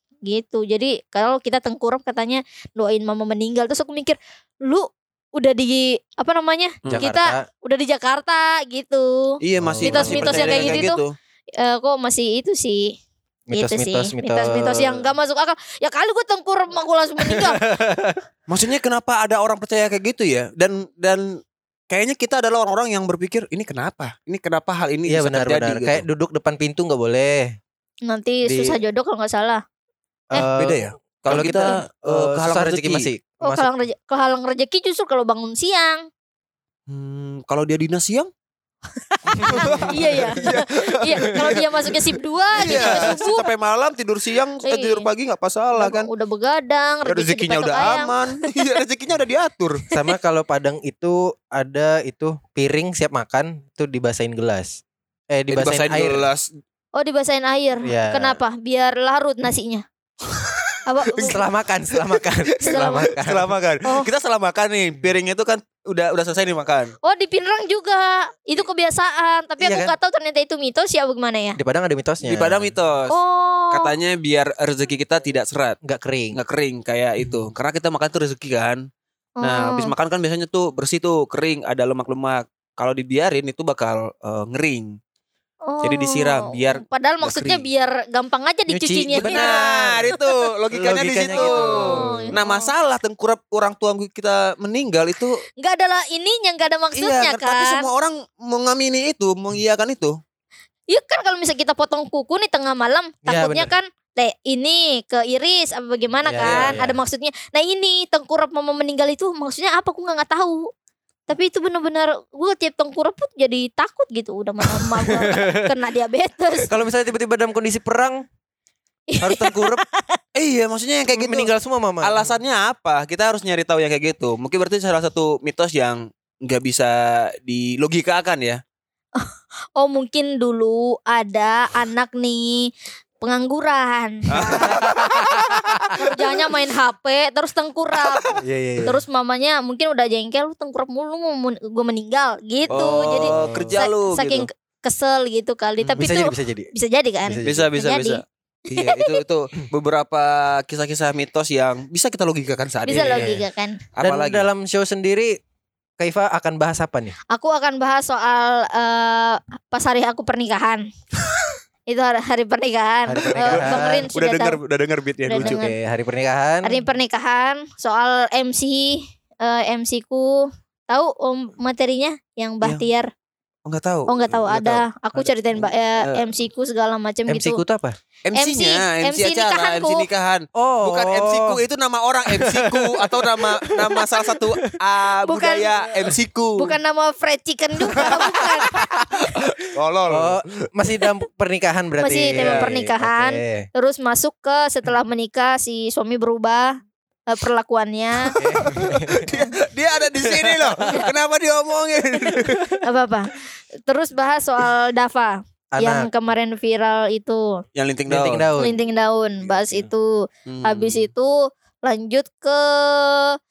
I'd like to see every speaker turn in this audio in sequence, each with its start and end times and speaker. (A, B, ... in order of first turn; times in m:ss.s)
0:00.2-0:11.0 A
0:06.9-0:07.4 B
0:09.4-0:11.1 C
0:09.6-0:10.9 B
0:11.6-0:12.9 A
0:13.5-0:15.1 B
0:13.5-0:17.6 A
0:17.2-0:18.2 B
0:18.5-0:21.3 C
0:21.9-0:26.0 C
0:25.1-0:27.6 B
0:28.1-0:29.6 A
0:28.4-0:28.8 B
0:30.3-0:33.7 B
0:30.4-0:33.1 C
0:31.3-0:31.7 A
0:33.4-0:36.0 A
0:36.9-0:38.3 C
0:39.3-0:40.6 B
0:39.4-0:42.0 C
0:39.4-0:43.5 A
0:42.6-0:46.1 C
0:42.6-0:43.1 B
0:44.6-0:45.1 A
0:45.8-0:48.5 A
0:47.0-0:49.8 C
0:49.9-0:56.2 B
0:55.5-0:56.4 C
0:57.0-0:59.8 A
0:57.8-0:58.4 B
1:00.3-1:00.7 C
1:00.8-1:01.4 A
1:01.1-1:03.5 B
1:02.6-1:06.9 C
1:02.6-1:03.1 A
1:07.0-1:11.6 A
1:09.6-1:09.9 B
1:11.6-1:12.7 B
1:12.2-1:13.1 C
1:13.1-1:13.9 A
1:13.7-1:15.8 C
1:15.8-1:16.4 B
1:16.3-1:18.8 C
1:19.4-1:19.9 A
1:19.4-1:24.9 C
1:25.6-1:29.6 A
1:25.8-1:27.6 C
1:28.7-1:30.1 B
1:29.2-1:35.4 C
1:30.7-1:32.3 B
1:31.3-1:32.7 A
1:35.6-1:37.9 A
1:36.9-1:40.1 C
1:40.9-1:50.7 A
1:43.2-1:43.7 B
1:46.2-1:47.0 B
1:46.4-1:46.8 C
1:51.3-1:56.7 A
1:55.0-1:55.7 B
1:56.7-1:58.2 B
1:59.1-2:00.2 A
1:59.2-1:59.8 B
2:00.4-2:08.6 C
2:01.1-2:02.3 B
2:09.2-2:15.3 A
2:14.3-2:16.0 C
2:14.4-2:15.8 B
2:15.9-2:28.2 A
2:18.3-2:19.0 C
2:22.7-2:23.8 B
2:22.7-2:24.5 C
2:26.0-2:26.7 B
2:27.2-2:27.7 B
2:27.4-2:33.3 C
2:28.8-2:29.2 A
2:32.9-2:33.8 A
2:32.9-2:33.4 B
2:34.0-2:34.5 C
2:34.0-2:35.4 B
2:36.0-2:37.2 B
2:37.3-2:40.8 A
2:41.9-2:44.6 A
2:43.1-2:44.1 B
2:43.3-2:45.6 C
2:45.3-2:45.7 A
2:45.4-2:46.8 B
2:46.6-2:53.1 A
2:53.6-2:54.3 C
2:54.1-2:57.6 A
2:54.5-2:55.3 B
2:56.0-2:56.2 C
2:57.3-2:58.0 B
2:58.2-3:06.8 C
2:58.4-3:00.1 A
3:00.6-3:01.6 B
3:02.3-3:04.8 B
3:05.2-3:09.0 A
3:07.9-3:09.4 B
3:09.1-3:10.7 C
3:10.1-3:13.7 B
3:12.0-3:18.4 A
3:12.3-3:12.7 C
3:18.3-3:22.8 C
3:18.4-3:19.4 B
3:20.2-3:21.0 B
3:22.4-3:22.6 B
3:22.8-3:27.6 A
3:25.7-3:26.1 B
3:27.8-3:28.5 C
3:28.1-3:28.8 B
3:28.6-3:33.4 A
3:30.4-3:31.1 C